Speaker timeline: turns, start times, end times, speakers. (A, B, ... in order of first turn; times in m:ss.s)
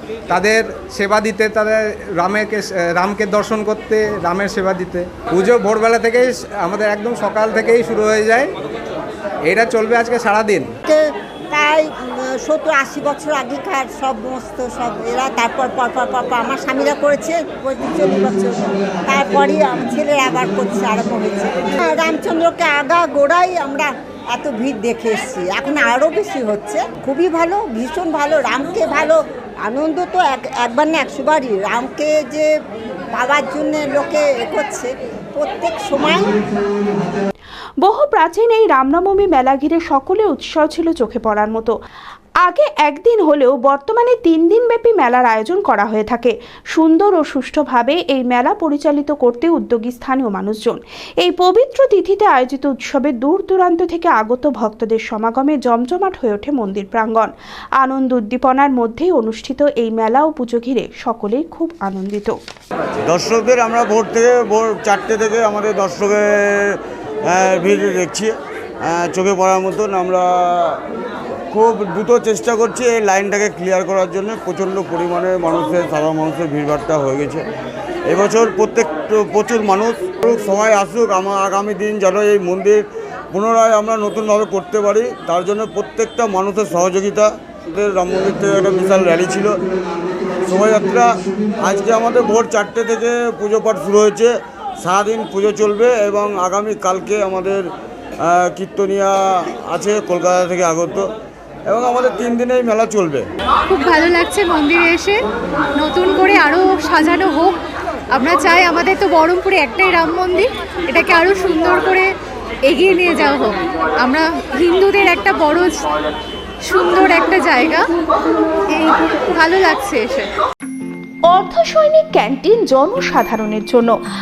0:00.3-0:08.5 A
0:09.5-0:10.7 A
0:10.9-0:32.5 B
0:33.1-0:36.3 B
0:37.8-0:41.7 C
0:42.4-1:02.4 C
1:03.1-1:10.8 D
1:11.5-1:17.4 D
1:18.1-1:29.5 D
1:30.4-1:31.1 D
1:31.6-1:37.6 D
1:38.2-1:41.1 D
1:41.7-1:43.3 D
1:43.7-1:45.2 E
1:45.8-1:47.6 E
1:48.1-1:52.1 E
1:52.7-1:55.9 E
1:56.6-1:57.8 E
1:58.7-2:00.3 E
2:01.3-2:03.9 C